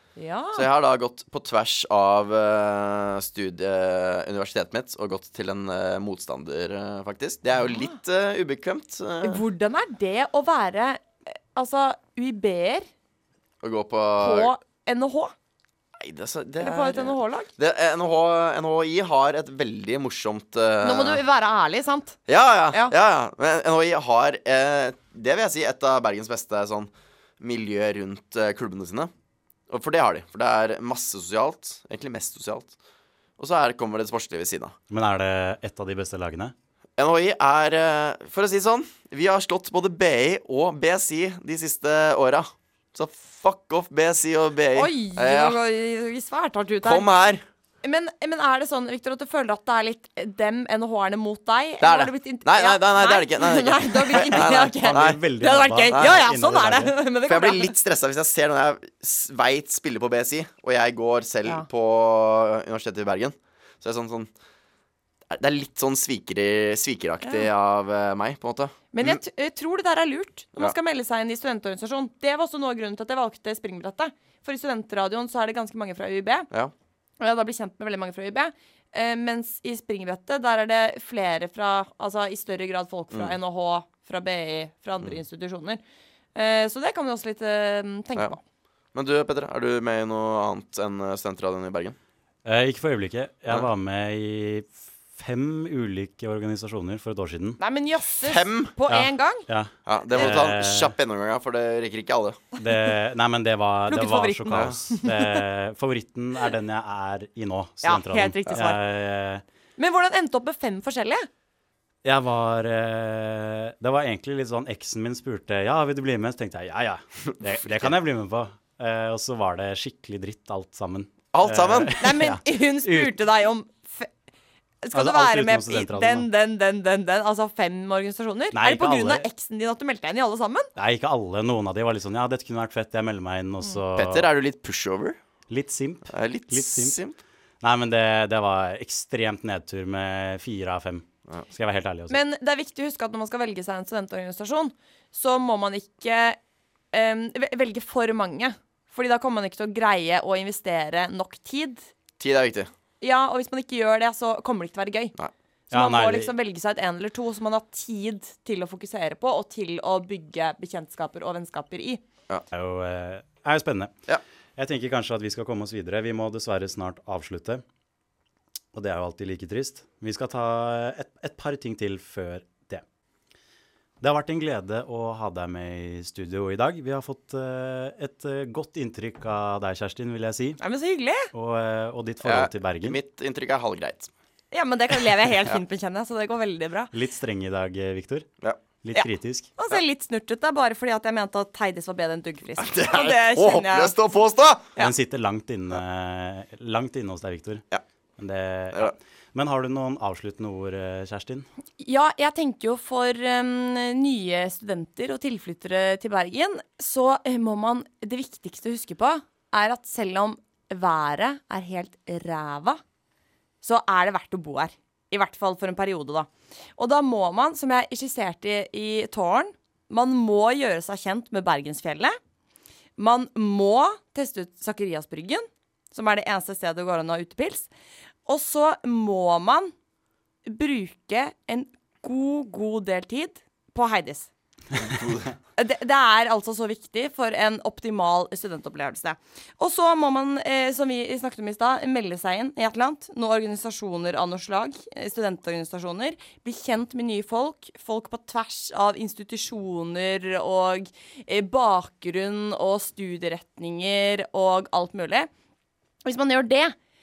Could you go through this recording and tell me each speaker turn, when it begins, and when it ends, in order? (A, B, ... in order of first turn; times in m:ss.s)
0:00.2-0:00.7 A
0:00.5-0:09.4 B
0:07.6-0:08.0 A
0:09.2-0:12.9 A
0:13.6-0:14.5 B
0:14.2-0:15.3 A
0:16.0-0:21.2 B
0:16.6-0:17.5 A
0:20.8-0:22.2 A
0:22.3-0:29.1 B
0:29.7-0:32.7 B
0:33.4-0:34.8 B
0:34.9-0:36.5 C
0:37.0-0:45.6 B
0:44.8-0:47.1 A
0:46.8-0:47.4 B
0:47.8-0:57.7 A
0:51.8-0:55.2 B
0:54.1-0:57.0 C
0:55.9-0:56.2 B
0:57.3-1:04.3 B
1:05.3-1:09.2 B
1:08.9-1:16.5 A
1:17.2-1:25.8 A
1:26.4-1:28.4 A
1:28.9-1:32.0 B
1:32.4-1:37.6 C
1:37.6-1:39.5 A
1:38.2-1:38.7 B
1:38.9-1:40.9 C
1:39.9-1:42.4 B
1:42.6-1:49.4 C
1:43.9-1:45.4 A
1:47.8-1:48.8 A
1:49.8-1:51.3 A
1:52.0-2:03.1 C
2:01.3-2:02.0 B
2:02.0-2:04.1 A
2:04.8-2:10.7 A
2:04.9-2:06.3 C
2:08.5-2:09.3 C
2:10.8-2:14.3 C
2:14.0-2:15.2 B
2:15.5-2:17.0 C
2:16.1-2:17.2 B
2:17.6-2:22.2 C
2:22.1-2:26.4 A
2:26.9-2:31.9 A
2:32.2-2:32.7 B
2:33.0-2:35.2 A
2:35.7-2:36.3 C
2:35.7-2:42.0 A
2:42.5-2:43.9 C
2:44.6-2:47.6 C
2:48.7-2:52.8 C
2:54.0-3:00.6 C
3:00.6-3:01.3 A
3:01.3-3:03.0 C
3:02.2-3:04.1 B
3:04.5-3:06.9 A
3:06.9-3:08.3 C
3:08.8-3:09.5 C
3:08.9-3:13.9 A
3:12.6-3:14.7 B
3:14.8-3:17.6 C
3:18.2-3:21.4 C
3:21.8-3:32.8 A
3:33.6-3:42.2 A
3:43.0-3:47.7 A
3:48.3-3:49.7 A
3:50.5-3:54.3 A
3:54.8-3:55.3 B
3:55.6-4:15.3 A
4:16.0-4:16.8 A